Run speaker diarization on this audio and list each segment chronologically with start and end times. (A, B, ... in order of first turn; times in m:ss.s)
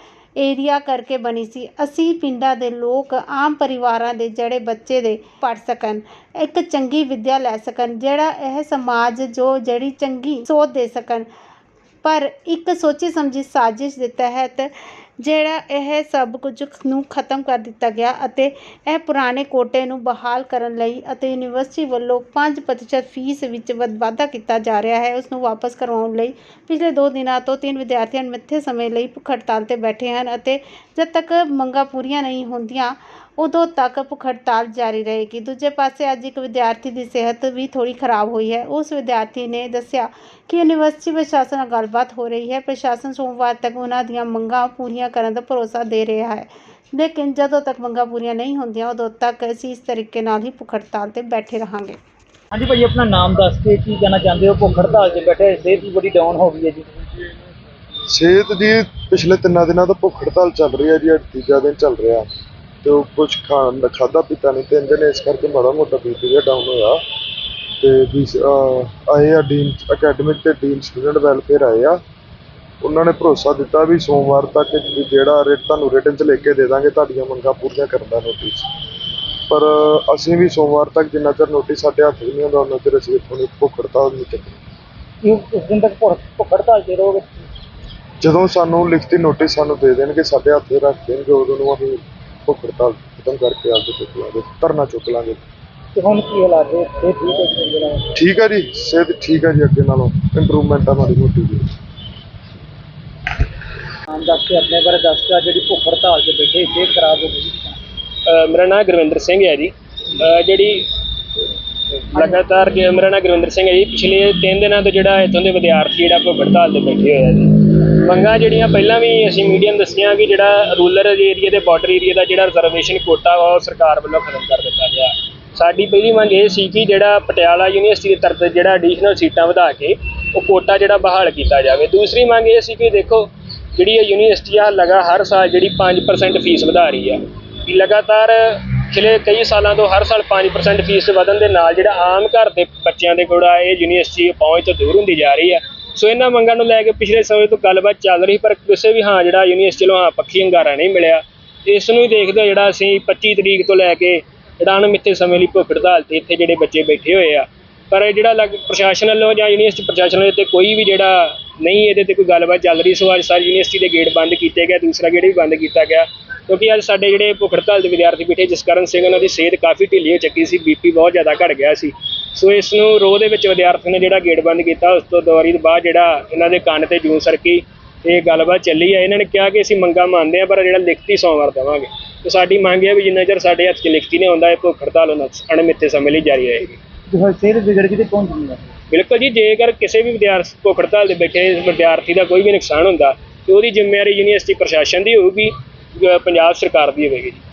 0:00.4-0:11.3 A
0:12.0-0:52.0 A
0:52.5-0:56.8 B
0:58.1-1:02.3 C
1:02.8-1:07.0 C
1:07.8-1:12.0 C
1:12.8-1:18.6 C
1:19.5-1:24.6 C
1:25.2-1:27.4 B
1:28.2-1:35.4 C
1:35.9-1:38.1 B
1:38.1-1:41.7 C
1:44.1-1:47.8 B
1:48.2-1:50.9 D
1:52.1-3:06.8 D
3:07.1-3:08.7 B
3:08.9-3:17.4 D